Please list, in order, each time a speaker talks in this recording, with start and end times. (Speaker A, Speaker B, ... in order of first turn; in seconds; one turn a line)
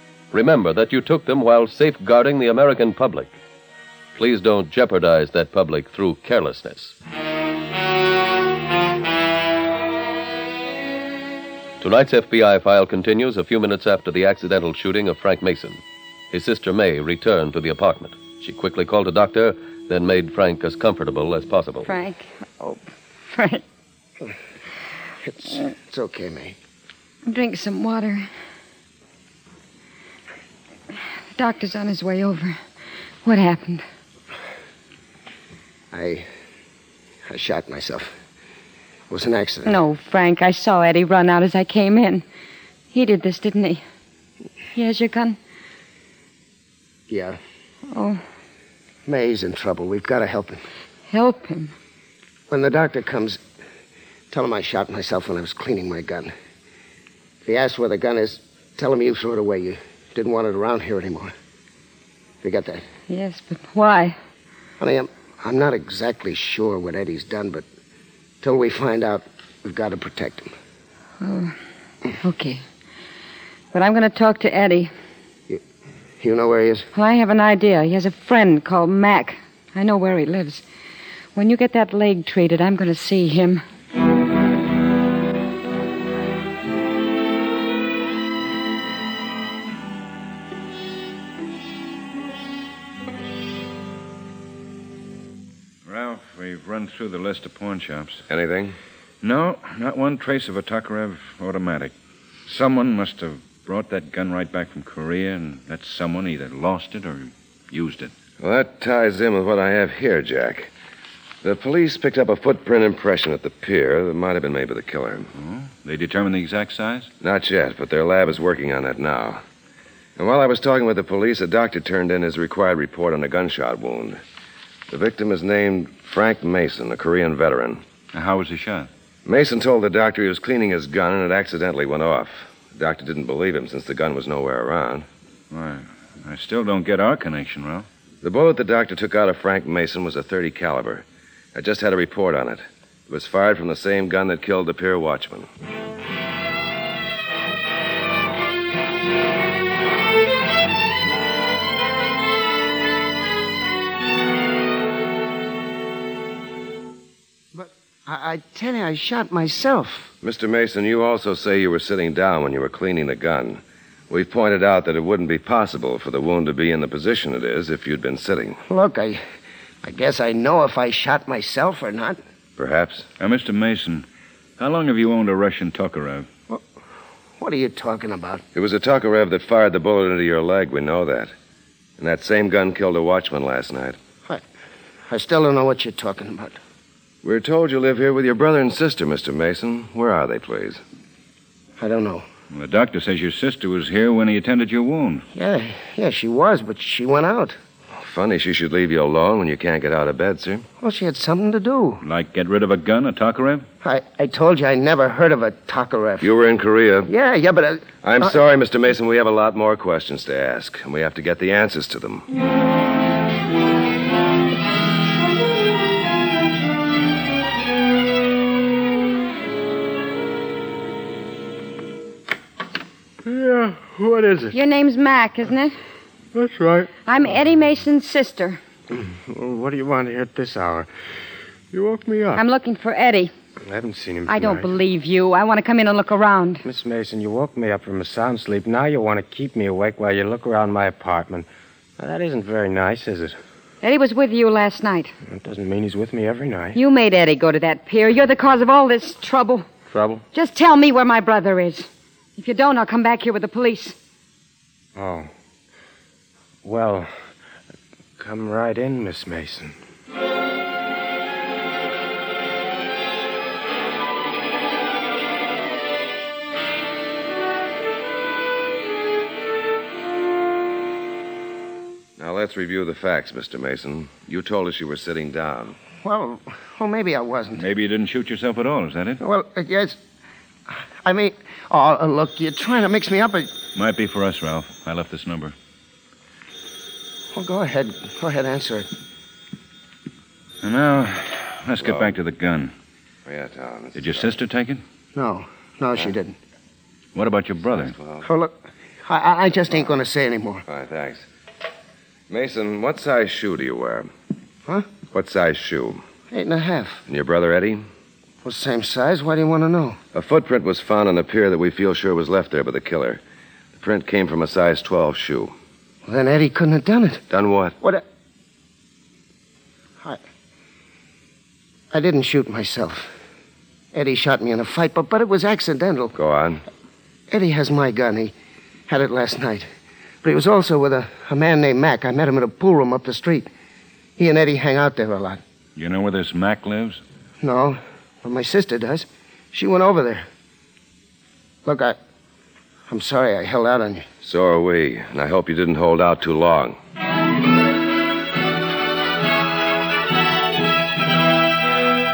Speaker A: 0.3-3.4
Speaker A: 4.2-6.9
Speaker A: 11.8-15.8
Speaker A: 16.3-21.9
Speaker B: 21.9-23.6
Speaker C: 25.2-26.6
Speaker B: 27.3-28.3
Speaker B: 31.4-32.6
Speaker B: 33.2-33.8
Speaker C: 35.9-36.3
Speaker C: 37.3-38.1
Speaker C: 39.1-39.8
Speaker B: 39.7-42.2
Speaker B: 42.9-43.8
Speaker B: 44.8-45.4
Speaker C: 47.1-47.4
Speaker B: 47.9-48.2
Speaker C: 49.1-50.6
Speaker B: 51.1-51.7
Speaker C: 52.5-53.4
Speaker C: 54.3-56.3
Speaker C: 57.5-61.3
Speaker C: 62.4-62.8
Speaker B: 63.1-64.2
Speaker C: 64.8-67.7
Speaker C: 68.4-70.5
Speaker B: 71.2-71.6
Speaker B: 72.2-72.6
Speaker B: 73.7-74.9
Speaker C: 76.2-76.9
Speaker B: 76.9-80.6
Speaker B: 81.3-83.6
Speaker D: 95.8-98.2
Speaker E: 98.3-98.8
Speaker D: 99.2-101.9
Speaker D: 102.5-108.1
Speaker E: 108.4-110.7
Speaker E: 111.4-115.3
Speaker D: 115.4-117.1
Speaker E: 117.2-119.4
Speaker E: 120.2-124.2
Speaker E: 124.9-127.8
Speaker D: 128.1-128.9
Speaker E: 129.2-135.1
Speaker D: 135.5-137.9
Speaker E: 138.2-145.5
Speaker C: 157.5-160.1
Speaker E: 160.2-168.6
Speaker C: 168.7-169.2
Speaker C: 169.8-172.2
Speaker E: 172.6-173.1
Speaker D: 173.2-174.1
Speaker D: 174.6-176.3
Speaker C: 177.4-178.4
Speaker E: 178.5-181.3
Speaker E: 182.0-184.0
Speaker C: 185.1-186.6
Speaker E: 187.2-190.8
Speaker C: 191.8-192.2
Speaker D: 192.5-195.3
Speaker C: 195.3-197.6
Speaker E: 197.9-200.7
Speaker C: 200.8-202.0
Speaker D: 202.0-203.7
Speaker C: 203.8-206.3
Speaker E: 206.2-207.1
Speaker C: 207.1-208.4
Speaker E: 208.0-212.3
Speaker F: 223.2-224.6
Speaker B: 224.5-225.8
Speaker F: 226.3-226.9
Speaker B: 227.1-228.6
Speaker F: 228.9-230.9
Speaker F: 231.7-232.4
Speaker B: 232.3-233.3
Speaker F: 233.7-234.7
Speaker B: 234.3-236.6
Speaker F: 236.7-241.5
Speaker F: 242.0-243.4
Speaker B: 243.8-245.1
Speaker F: 245.3-246.8
Speaker B: 246.7-249.7
Speaker F: 249.9-250.2
Speaker B: 250.3-254.0
Speaker F: 255.0-255.3
Speaker F: 256.6-257.1
Speaker F: 258.2-259.8
Speaker E: 272.2-275.8
Speaker C: 276.0-277.6
Speaker D: 277.6-279.2
Speaker C: 279.2-280.0
Speaker C: 280.7-283.6
Speaker D: 283.8-285.6
Speaker C: 287.4-288.9
Speaker D: 290.6-292.7
Speaker E: 291.9-292.1
Speaker E: 293.3-294.3
Speaker D: 293.9-294.8
Speaker C: 295.1-296.4
Speaker D: 297.1-298.0
Speaker E: 297.9-298.3
Speaker C: 298.2-298.5
Speaker C: 299.1-300.6
Speaker E: 300.7-301.3
Speaker E: 302.3-304.1
Speaker C: 304.7-304.9
Speaker E: 305.1-306.1
Speaker C: 306.3-307.0
Speaker E: 307.1-307.8
Speaker C: 308.4-310.0
Speaker E: 310.1-313.2
Speaker E: 313.8-315.5
Speaker C: 316.1-317.2
Speaker E: 317.3-317.8
Speaker C: 321.9-323.1
Speaker C: 323.9-326.1
Speaker E: 326.1-326.6
Speaker C: 327.3-328.3
Speaker C: 328.9-329.7
Speaker C: 330.2-333.5
Speaker C: 334.2-335.4
Speaker D: 335.8-337.0
Speaker C: 337.4-340.2
Speaker C: 341.6-342.0
Speaker C: 342.9-344.1
Speaker E: 344.2-346.8